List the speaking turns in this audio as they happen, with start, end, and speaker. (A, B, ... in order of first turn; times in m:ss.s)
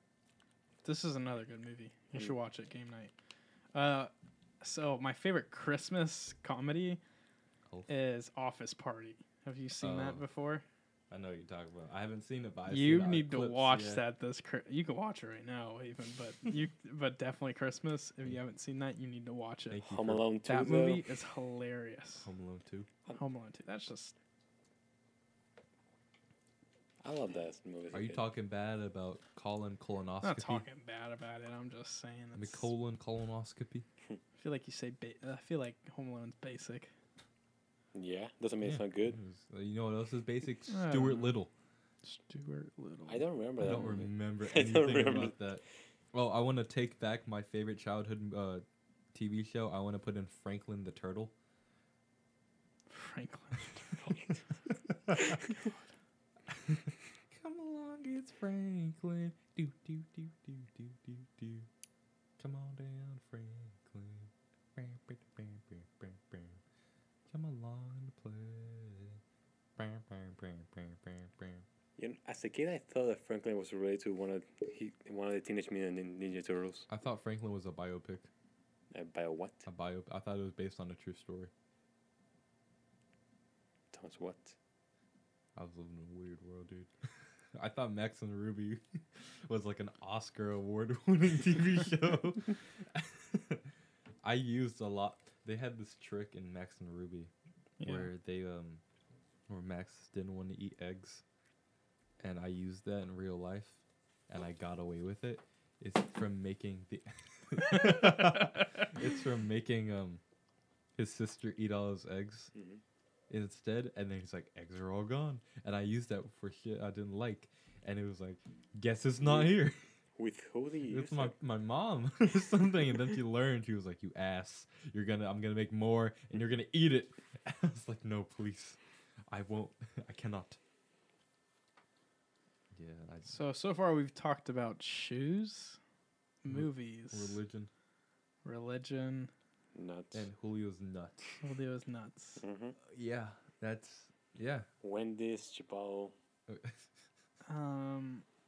0:00.8-0:03.1 A
0:03.7-0:07.0 A
0:07.9-0:10.6 A
0:09.8-0:10.2 B
0:11.1-0:14.0 B
0:12.7-0:19.8 A
0:19.7-0:20.2 B
0:19.8-0:21.0 C
0:20.4-0:22.3 A
0:22.2-0:22.9 B
0:23.1-0:24.1 A
0:27.0-0:28.2 C
0:27.9-0:30.6 B
0:30.2-0:32.7 A
0:32.3-0:33.8 B
0:34.4-0:36.9 A
0:37.9-0:39.2 C
0:38.6-0:41.5 B
0:40.7-0:41.4 A
0:42.0-0:43.9 A
0:43.1-0:45.3 C
0:43.6-0:51.3 B
0:52.9-0:54.2 A
0:55.3-0:55.7 A
0:56.5-1:01.7 B
1:02.4-1:06.6 B
1:07.3-1:09.2 B
1:09.8-1:11.6 B
1:12.0-1:16.9 C
1:16.9-1:18.3 B
1:18.9-1:19.7 C
1:19.6-1:21.5 B
1:23.9-1:24.6 C
1:25.6-1:26.9 B
1:27.5-1:33.7 B
1:34.2-1:37.3 B
1:37.8-1:38.1 A
1:37.8-1:38.8 B
1:39.5-1:41.2 B
1:42.2-1:50.2 B
1:51.0-1:52.5 B
1:52.5-1:52.8 C
1:53.3-1:59.8 B
1:59.2-1:59.5 C
2:00.2-2:01.3 C
2:00.9-2:10.6 B
2:12.7-2:13.3 B
2:13.3-2:15.8 A
2:16.4-2:17.4 A
2:16.5-2:17.7 B
2:18.4-2:19.3 A
2:19.7-2:20.2 C
2:20.1-2:21.4 B
2:21.4-2:22.4 A
2:22.4-2:22.8 C
2:22.8-2:24.7 B
2:24.8-2:26.1 C
2:26.5-2:26.9 B
2:27.4-2:28.2 A